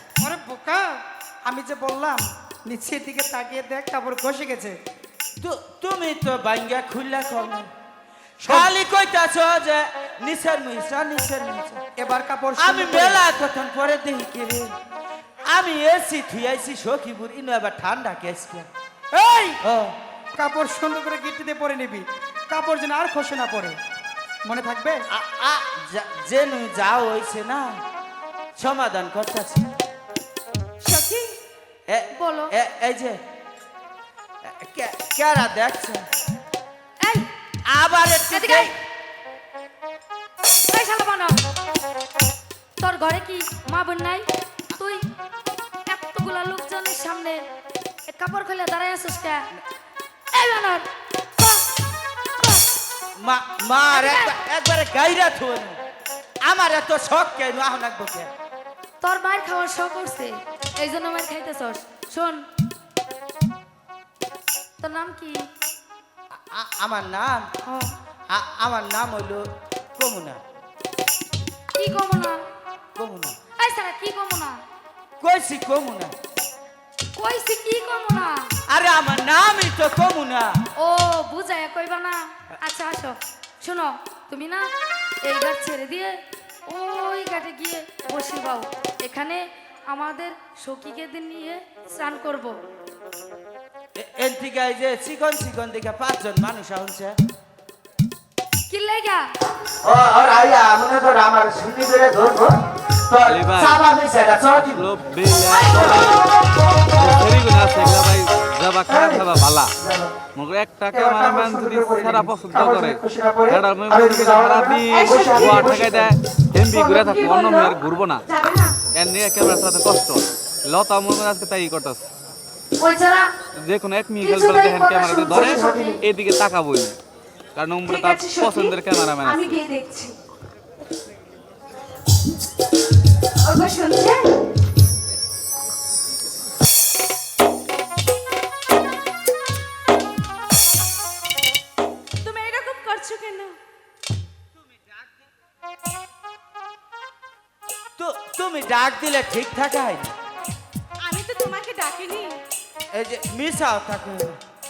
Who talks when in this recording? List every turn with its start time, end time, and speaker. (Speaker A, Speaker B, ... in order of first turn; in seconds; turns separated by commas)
Speaker A: 0.2-4.8, Speaker B: 5.4-7.7, Speaker A: 8.4-8.7, Speaker B: 8.4-11.8, Speaker A: 12.0-13.2, Speaker B: 12.6-14.7, Speaker B: 15.5-18.7, Speaker A: 19.1-19.6, Speaker B: 19.6-19.9, Speaker A: 20.4-23.8, Speaker A: 24.4-25.0, Speaker B: 25.1-27.8, Speaker B: 28.6-29.7, Speaker C: 30.8-31.3, Speaker B: 31.9-33.2, Speaker D: 32.2-32.5, Speaker B: 34.4-36.0, Speaker D: 37.0-37.3, Speaker B: 37.7-38.7, Speaker D: 38.3-38.7, Speaker D: 40.7-41.4, Speaker D: 42.8-45.0, Speaker D: 45.9-47.4, Speaker D: 48.1-49.5, Speaker D: 50.3-51.7, Speaker D: 52.4-52.6, Speaker B: 53.2-55.8, Speaker D: 53.9-54.3, Speaker B: 56.4-58.3, Speaker D: 59.0-62.5, Speaker D: 64.8-65.5, Speaker B: 66.3-67.5, Speaker D: 67.7-67.9, Speaker B: 68.3-70.4, Speaker D: 71.7-72.4, Speaker B: 73.0-73.3, Speaker D: 73.6-74.6, Speaker B: 75.2-76.1, Speaker D: 77.2-78.5, Speaker B: 78.7-80.5, Speaker D: 80.8-84.7, Speaker D: 85.2-92.5, Speaker B: 94.0-97.2, Speaker D: 98.7-99.2, Speaker B: 99.8-104.8, Speaker E: 103.3-103.8, Speaker E: 104.6-106.2, Speaker B: 105.7-106.1, Speaker E: 106.8-109.7, Speaker A: 108.9-109.2, Speaker E: 110.3-118.2, Speaker A: 110.9-116.1, Speaker C: 115.2-115.7, Speaker D: 116.7-117.7, Speaker C: 118.3-118.8, Speaker E: 118.9-122.0, Speaker D: 122.8-123.3, Speaker E: 123.6-127.0, Speaker D: 124.2-126.0, Speaker E: 127.5-129.6, Speaker C: 127.8-130.1, Speaker C: 133.4-134.3, Speaker C: 142.2-143.6, Speaker B: 148.0-150.1, Speaker C: 151.0-152.3, Speaker B: 152.9-154.4